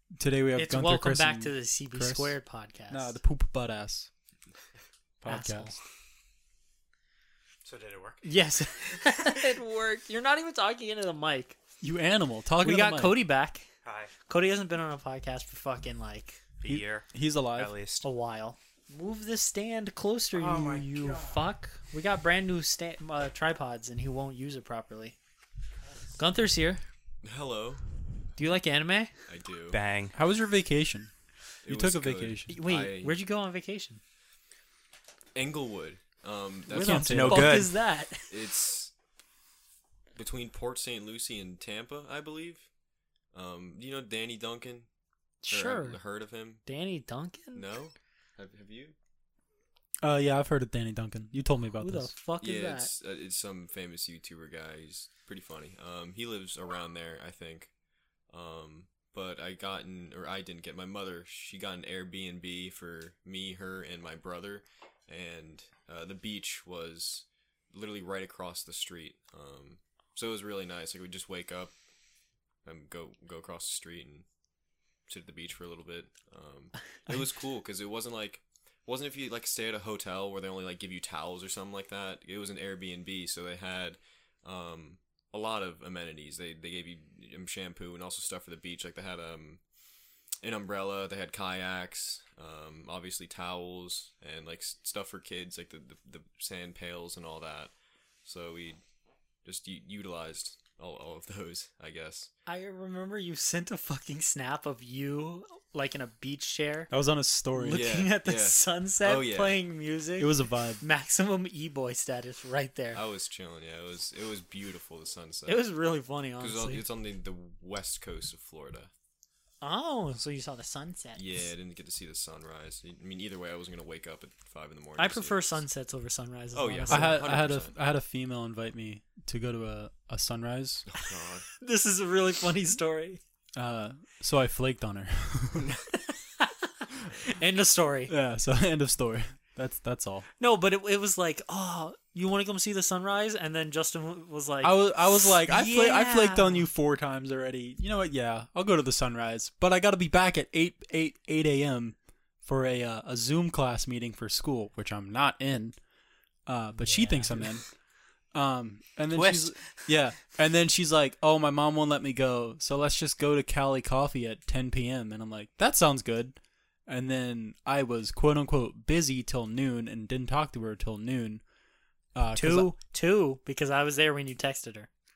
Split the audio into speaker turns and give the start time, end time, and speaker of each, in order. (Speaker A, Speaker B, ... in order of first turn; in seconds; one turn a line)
Speaker A: 0.2-2.4
Speaker B: 0.6-3.1
Speaker A: 2.9-4.1
Speaker A: 5.2-5.8
Speaker B: 5.2-5.7
Speaker C: 7.6-8.2
Speaker B: 8.2-11.6
Speaker A: 11.8-13.2
Speaker B: 12.6-13.6
Speaker C: 13.8-14.1
Speaker B: 14.3-16.4
Speaker C: 16.6-18.1
Speaker A: 16.6-17.7
Speaker B: 18.0-25.1
Speaker C: 20.3-21.4
Speaker B: 26.2-26.8
Speaker D: 27.2-27.8
Speaker B: 28.4-29.1
Speaker D: 29.3-29.8
Speaker C: 29.7-30.1
Speaker A: 30.1-31.1
Speaker D: 31.6-33.2
Speaker A: 31.6-32.5
Speaker B: 32.5-34.0
Speaker D: 35.3-37.1
Speaker A: 36.7-37.6
Speaker B: 36.7-38.3
Speaker C: 37.0-37.7
Speaker D: 38.3-38.9
Speaker D: 40.1-42.7
Speaker D: 43.3-44.9
Speaker B: 45.4-46.0
Speaker D: 45.5-46.6
Speaker B: 46.6-47.6
Speaker D: 47.5-49.0
Speaker A: 50.0-52.1
Speaker B: 51.8-52.9
Speaker D: 52.4-57.7
Speaker D: 58.3-71.7
Speaker D: 72.6-74.2
Speaker D: 75.1-89.6
Speaker D: 90.4-97.7
Speaker D: 98.2-98.8
Speaker D: 99.4-102.3
Speaker B: 102.5-106.9
Speaker A: 106.9-107.9
Speaker B: 107.6-113.0
Speaker D: 107.7-109.6
Speaker A: 110.2-110.8
Speaker D: 112.9-115.7
Speaker B: 115.5-116.8
Speaker D: 116.4-118.9
Speaker B: 119.6-121.3
Speaker D: 121.1-125.6
Speaker B: 125.0-127.2
Speaker D: 126.5-127.7
Speaker A: 126.9-130.8
Speaker D: 130.9-131.5
Speaker B: 131.6-133.2
Speaker A: 133.6-135.7
Speaker B: 136.4-138.1
Speaker A: 138.1-140.2
Speaker B: 140.4-146.7
Speaker A: 144.6-155.8
Speaker A: 156.5-157.6
Speaker B: 156.8-157.5
Speaker A: 158.3-166.3
Speaker C: 159.1-159.6
Speaker A: 166.9-171.4
Speaker A: 172.1-172.7
Speaker B: 172.4-174.9